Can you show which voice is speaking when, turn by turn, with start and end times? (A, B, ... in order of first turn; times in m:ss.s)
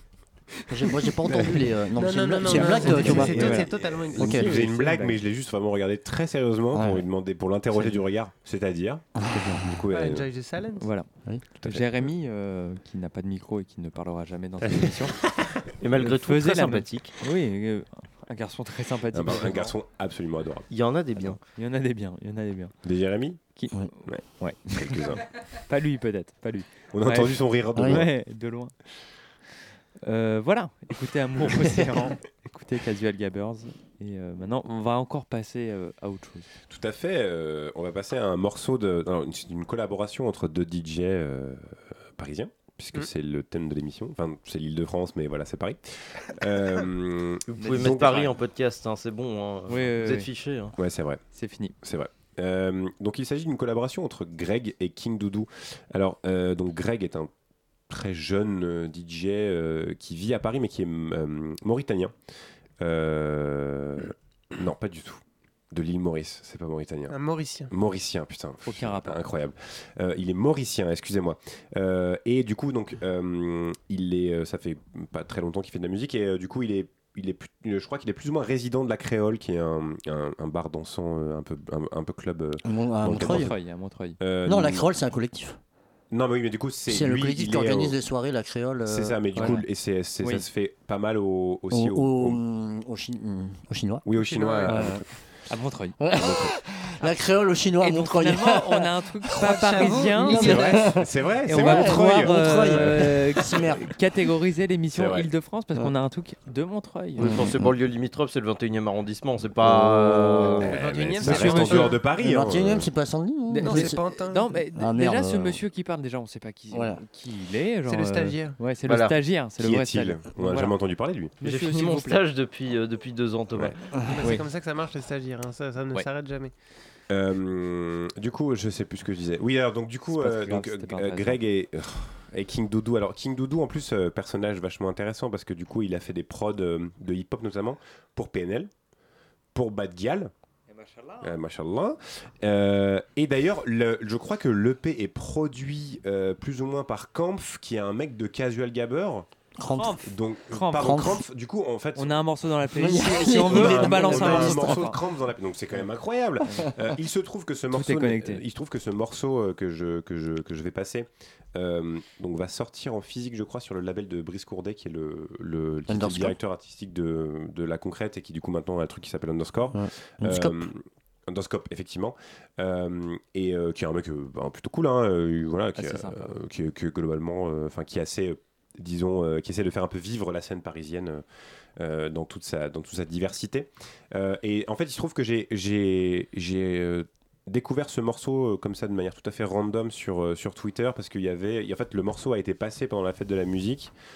0:00.7-0:04.6 A
0:01.3-0:04.3 B
0:02.5-0:05.2 C
0:02.8-0:10.3 D
0:06.7-0:07.0 A
0:07.7-0:08.0 C
0:09.2-0:09.8 A
0:09.9-0:10.9 B
0:10.8-0:15.3 C
0:11.5-0:12.1 D
0:15.8-0:17.1 E
0:16.0-0:19.8 C
0:19.1-0:20.7 D
0:20.7-0:21.4 E
0:21.6-0:22.8 C
0:22.8-0:25.5 D
0:23.5-0:29.0 C
0:26.9-0:28.1 D
0:27.7-0:28.0 A
0:30.0-0:36.5 C
0:36.7-0:48.3 D
0:47.5-0:50.8 E
0:47.8-0:48.3 C
0:49.7-0:50.3 C
0:50.8-0:57.3 D
0:51.3-0:51.8 C
0:57.9-1:02.1 D
1:02.8-1:07.2 D
1:07.1-1:07.7 B
1:07.7-1:23.6 D
1:08.6-1:09.3 C
1:22.6-1:23.5 A
1:23.1-1:24.2 C
1:24.2-1:24.9 D
1:24.4-1:25.6 A
1:26.1-1:28.0 D
1:26.9-1:29.6 A
1:28.8-1:32.4 D
1:29.4-1:29.6 C
1:30.2-1:30.5 C
1:31.7-1:34.1 A
1:34.0-1:35.4 D
1:34.2-1:34.7 B
1:34.6-1:35.0 A
1:35.5-1:36.0 C
1:36.0-1:38.9 A
1:36.2-1:36.6 D
1:37.8-1:47.4 C
1:39.4-1:40.9 B
1:40.2-1:43.9 A
1:40.3-1:43.2 D
1:45.0-1:45.3 D
1:47.2-1:50.7 E
1:47.2-1:47.7 A
1:49.7-1:50.6 C
1:49.8-1:50.6 A
1:50.7-1:52.9 D
1:50.7-1:52.1 B
1:51.3-1:51.8 C
1:52.1-1:54.0 A
1:53.5-2:00.8 C
1:53.6-1:54.6 B
1:54.7-1:55.6 A
1:56.7-1:57.0 A
1:57.9-1:58.6 B
1:58.8-1:59.2 E
1:59.6-2:01.4 D
2:01.4-2:02.2 C
2:01.4-2:03.9 E
2:03.9-2:04.2 A
2:04.0-2:06.5 B
2:07.1-2:18.7 D
2:10.1-2:11.4 C
2:19.5-2:20.3 D
2:21.2-2:29.3 D
2:29.6-2:30.0 A
2:29.7-2:31.1 C
2:30.0-2:32.3 D
2:30.8-2:31.2 A
2:32.0-2:35.0 C
2:32.8-2:34.9 A
2:32.9-3:01.2 D
2:37.7-2:38.4 C
2:45.9-2:46.4 A
2:49.7-2:50.7 A
2:55.8-2:56.4 C
3:01.8-3:13.9 D